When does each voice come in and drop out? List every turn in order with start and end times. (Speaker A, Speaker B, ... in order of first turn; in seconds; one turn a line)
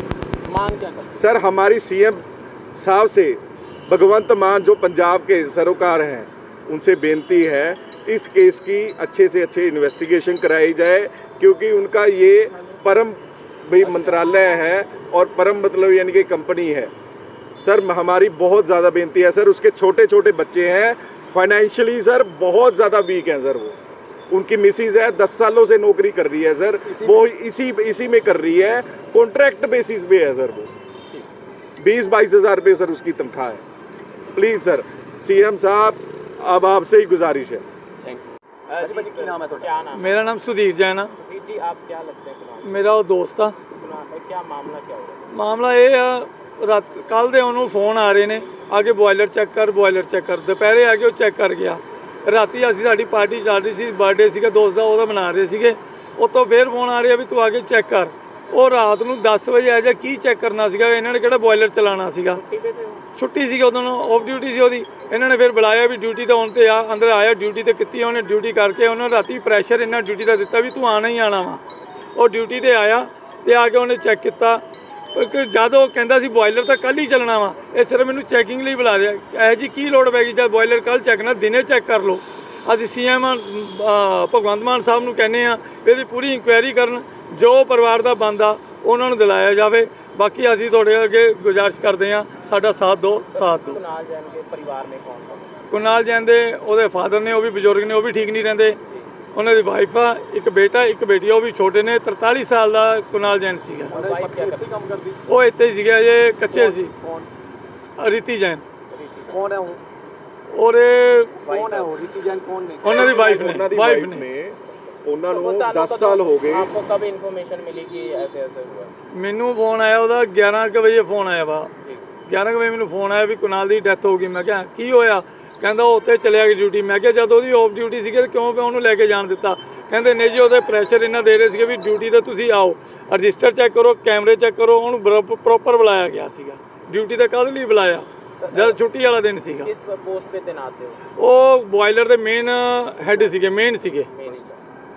Speaker A: 0.5-1.2
Speaker B: 1.2-16.9
Speaker B: 17.6-23.8
Speaker B: 24.3-30.7
Speaker C: 26.9-27.2
Speaker B: 31.8-33.6
Speaker B: 34.3-37.6
Speaker A: 38.7-40.3
Speaker C: 38.8-39.7
Speaker D: 40.0-41.1
Speaker A: 41.2-42.9
Speaker D: 42.6-43.6
Speaker A: 43.7-45.4
Speaker D: 45.3-62.4
Speaker A: 62.3-63.1
Speaker D: 63.1-71.6
Speaker D: 72.2-74.6
Speaker D: 75.1-93.8
Speaker A: 93.3-95.6
Speaker D: 95.7-98.8
Speaker A: 98.9-99.1
Speaker D: 99.3-104.0
Speaker A: 103.9-104.7
Speaker C: 103.9-105.2
Speaker D: 105.3-106.9
Speaker C: 106.5-107.3
Speaker D: 108.0-108.6
Speaker A: 108.9-109.4
Speaker C: 109.3-109.8
Speaker D: 110.5-111.4
Speaker A: 111.5-112.0
Speaker C: 111.5-113.2
Speaker D: 112.8-114.2
Speaker B: 112.9-116.7
Speaker A: 114.7-118.9
Speaker D: 119.1-121.7
Speaker D: 122.3-139.7
Speaker A: 138.4-138.8
Speaker A: 139.6-141.0
Speaker D: 141.2-144.1
Speaker A: 143.1-143.4
Speaker A: 144.1-144.6